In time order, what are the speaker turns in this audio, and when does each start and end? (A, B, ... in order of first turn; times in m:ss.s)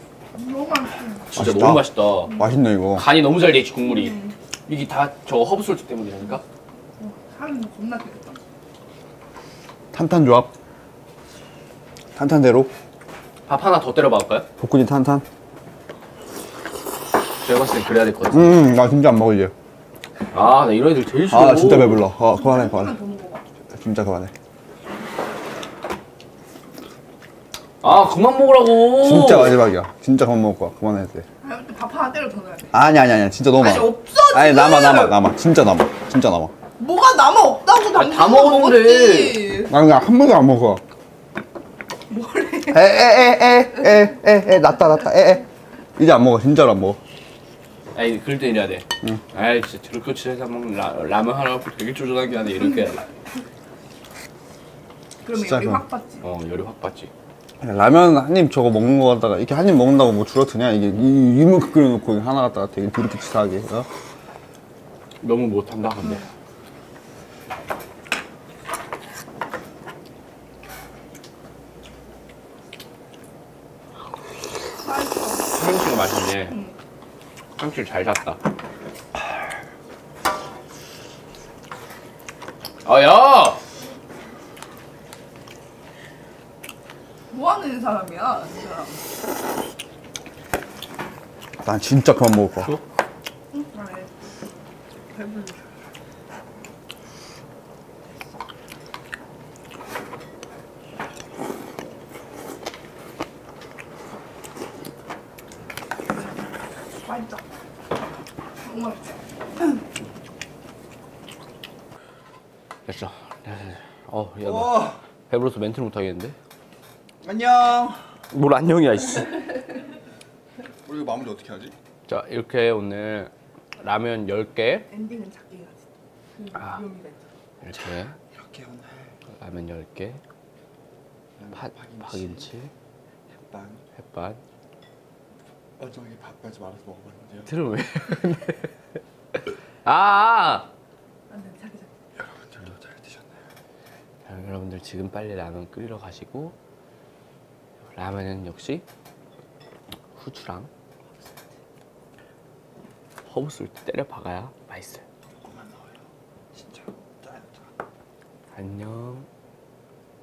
0:00.3-0:01.4 A
0:01.3-0:02.4 B
0:01.4-0:03.1 C
0:02.9-0:06.4 B
0:03.8-0:04.3 A
0:07.0-0:08.4 A
0:09.9-0:10.5 C
0:12.2-0:12.7 C
0:13.5-0:14.5 B
0:14.6-0:15.2 C
0:17.4-0:18.6 B
0:18.3-0:19.5 C
0:20.3-0:22.0 B
0:21.3-0:23.0 C
0:22.2-0:23.4 A
0:23.7-0:24.3 C
0:27.8-0:29.6 B
0:28.9-0:31.2 C
0:31.4-0:32.7 A
0:32.7-0:36.5 C
0:33.6-0:35.2 A
0:36.8-0:39.7 A
0:37.9-0:39.4 B
0:39.7-0:40.8 C
0:42.1-0:43.1 A
0:42.7-0:45.5 C
0:46.0-0:47.0 C
0:47.9-0:53.1 B
0:55.2-0:56.2 A
0:55.3-0:55.8 C
0:56.2-0:57.1 B
0:57.6-1:03.9 C
1:05.2-1:06.3 B
1:14.8-1:15.6 A
1:15.5-1:16.6 B
1:17.6-1:18.4 B
1:22.8-1:23.6 B
1:27.3-1:29.1 A
1:31.6-1:32.7 C
1:33.5-1:34.5 A
1:35.1-1:35.6 A
1:47.0-1:47.4 A
1:48.6-1:49.8 A
1:52.9-1:56.4 B
1:54.4-1:55.0 C
1:57.2-1:58.1 C
1:58.3-1:59.4 B
2:00.8-2:01.7 C
2:02.1-2:04.9 B
2:04.9-2:05.8 A
2:06.3-2:07.2 A
2:07.6-2:08.2 B
2:08.3-2:09.1 C
2:09.3-2:10.2 B
2:11.4-2:12.5 C
2:11.5-2:12.7 B
2:13.4-2:13.8 C
2:14.0-2:14.4 B
2:15.8-2:17.5 C
2:17.5-2:18.7 B
2:19.8-2:20.7 B
2:21.3-2:21.9 A
2:22.2-2:23.3 C
2:24.2-2:26.6 B
2:28.0-2:28.8 B
2:30.2-2:30.7 B
2:33.3-2:35.0 B
2:35.5-2:35.9 C
2:36.6-2:37.5 C
2:38.5-2:39.3 B